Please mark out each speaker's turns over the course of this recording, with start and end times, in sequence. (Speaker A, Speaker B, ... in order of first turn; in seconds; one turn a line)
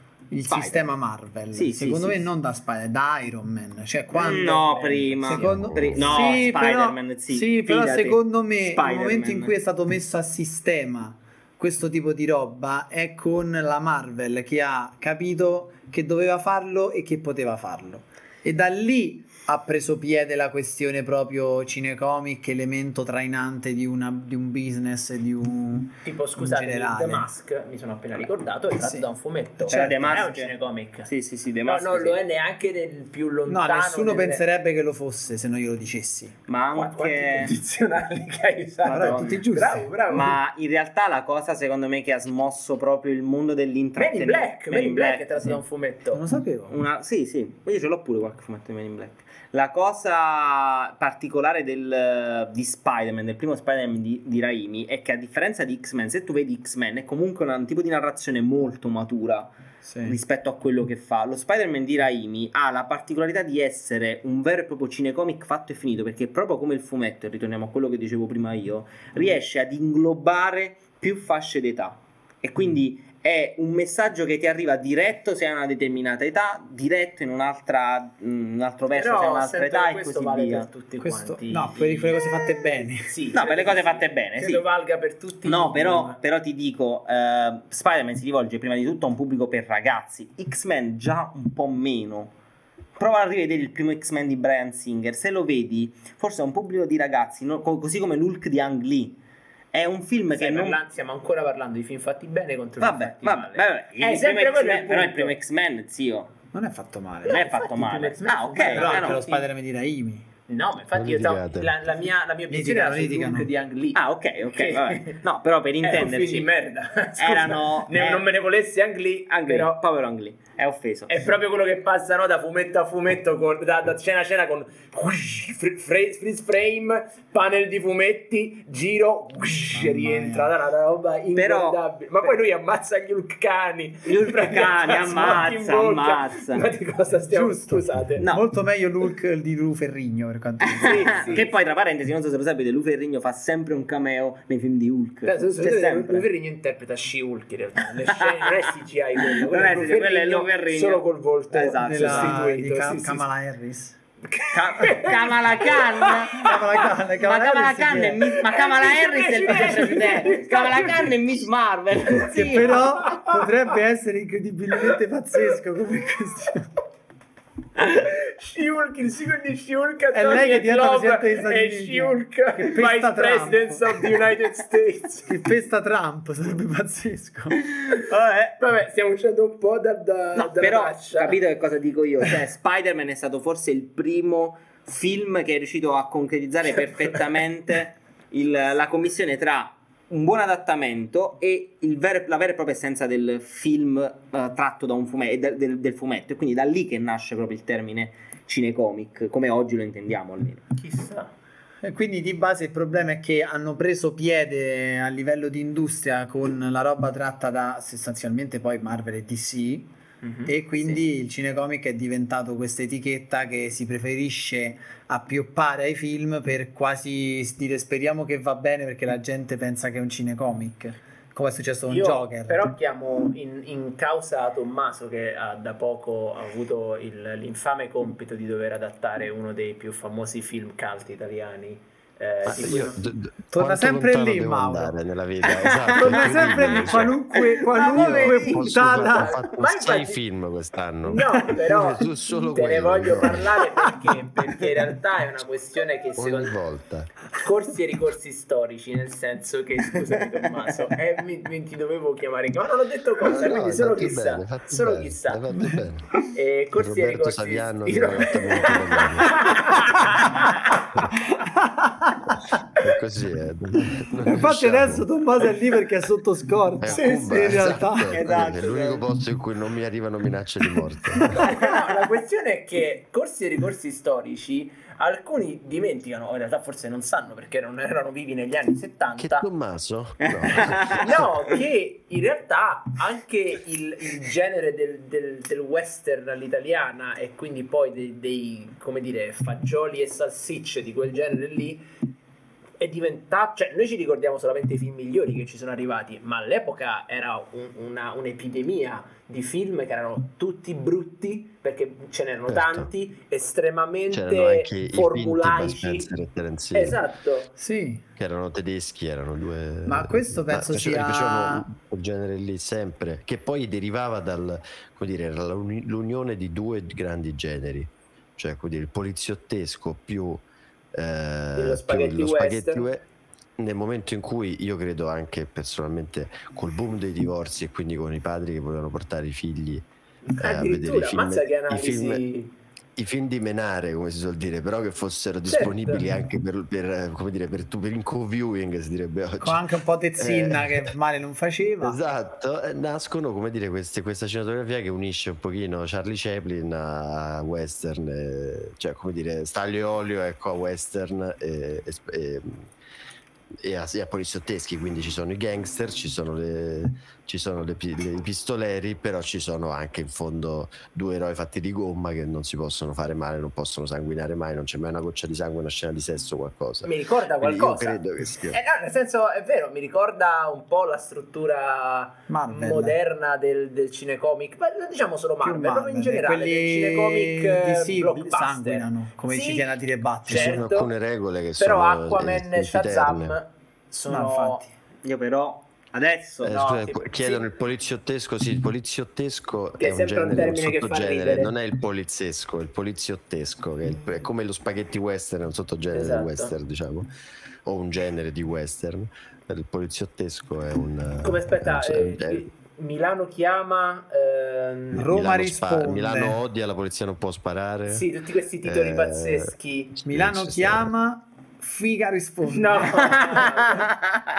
Speaker A: 0.3-27.3
Speaker B: 0.5-0.9
Speaker B: 1.5-2.3
Speaker B: 4.1-9.5
Speaker C: 4.7-5.7
Speaker D: 5.5-6.2
Speaker C: 26.0-31.1
Speaker A: 28.8-29.1
Speaker A: 29.6-30.2
Speaker B: 29.7-30.5
Speaker B: 31.1-32.2
Speaker C: 31.6-34.4
Speaker A: 33.5-36.4
Speaker B: 36.5-37.5
Speaker C: 36.7-40.4
Speaker B: 38.9-39.4
Speaker A: 38.9-39.9
Speaker B: 40.1-45.6
Speaker C: 44.0-46.2
Speaker A: 46.1-46.8
Speaker B: 46.7-59.5
Speaker A: 59.9-60.2
Speaker B: 60.0-80.7
Speaker C: 78.9-82.2
Speaker A: 81.0-83.1
Speaker B: 82.2-82.8
Speaker C: 83.1-86.2
Speaker B: 83.3-84.7
Speaker B: 85.5-92.3
Speaker B: 93.0-99.2
Speaker B: 99.7-100.8
Speaker C: 100.4-105.3
Speaker B: 102.8-106.3
Speaker A: 106.5-107.4
Speaker C: 107.2-109.5
Speaker B: 107.3-109.2
Speaker A: 108.6-110.3
Speaker C: 110.5-115.2
Speaker D: 111.0-111.8
Speaker A: 112.5-113.5
Speaker B: 114.0-116.5
Speaker C: 115.8-119.8
Speaker B: 117.2-118.3
Speaker B: 119.3-121.1
Speaker C: 121.1-138.3
Speaker A: 129.8-130.5
Speaker B: 131.3-131.8
Speaker B: 134.1-136.7
Speaker A: 137.2-141.4
Speaker B: 138.2-138.5
Speaker B: 140.7-146.3
Speaker C: 140.8-141.5
Speaker C: 145.2-153.3
Speaker B: 148.2-148.7
Speaker B: 149.3-152.5
Speaker A: 151.6-154.0
Speaker C: 154.3-156.9
Speaker B: 154.5-163.1
Speaker A: 156.3-158.4
Speaker C: 158.2-161.1
Speaker C: 162.1-163.3
Speaker A: 162.2-166.7
Speaker C: 167.8-175.3
Speaker A: 170.1-174.1
Speaker A: 175.3-177.7
Speaker B: 178.0-178.5
Speaker C: 178.6-181.4
Speaker B: 180.4-200.7
Speaker C: 200.8-201.3
Speaker A: 201.8-209.9
Speaker C: 210.2-211.0
Speaker A: 210.5-222.7
Speaker C: 221.9-233.0
Speaker D: 232.5-237.2
Speaker A: 233.5-234.9
Speaker B: 235.7-238.7
Speaker A: 235.9-239.3
Speaker D: 237.9-243.5
Speaker C: 238.8-240.2
Speaker C: 241.0-246.6
Speaker D: 246.2-247.1
Speaker C: 247.4-255.4
Speaker D: 253.2-256.2
Speaker A: 255.5-255.8
Speaker C: 256.3-260.9
Speaker D: 256.8-260.1
Speaker A: 261.4-262.3
Speaker D: 262.7-265.1
Speaker A: 264.2-268.2
Speaker D: 266.8-271.4
Speaker C: 266.9-267.6
Speaker B: 268.1-269.1
Speaker C: 271.3-279.5
Speaker B: 271.5-271.8
Speaker D: 279.2-281.2
Speaker B: 280.2-281.0
Speaker C: 280.9-291.8
Speaker C: 292.8-306.1
Speaker D: 302.5-302.9
Speaker D: 304.1-307.0
Speaker C: 306.7-307.5
Speaker A: 307.6-308.0
Speaker D: 308.2-323.1
Speaker A: 309.9-311.7
Speaker C: 321.6-322.9
Speaker D: 323.6-329.9
Speaker C: 330.2-332.5
Speaker D: 330.4-332.2
Speaker D: 333.0-339.6
Speaker C: 335.5-336.1
Speaker A: 339.4-342.0
Speaker D: 340.2-340.9
Speaker D: 341.8-352.7
Speaker D: 353.6-368.6
Speaker C: 366.8-379.7
Speaker A: 372.3-373.0
Speaker A: 375.4-380.6
Speaker C: 380.2-380.9
Speaker D: 380.3-383.4
Speaker C: 381.6-384.6
Speaker A: 384.1-384.7
Speaker B: 385.0-386.6
Speaker D: 386.4-397.1
Speaker C: 386.5-387.5
Speaker C: 389.8-391.5
Speaker C: 395.9-396.6
Speaker D: 397.6-402.5
Speaker C: 401.2-405.1
Speaker D: 404.9-408.1
Speaker A: 404.9-406.4
Speaker C: 407.9-410.0
Speaker D: 408.6-410.9
Speaker A: 410.1-413.5
Speaker C: 412.5-413.9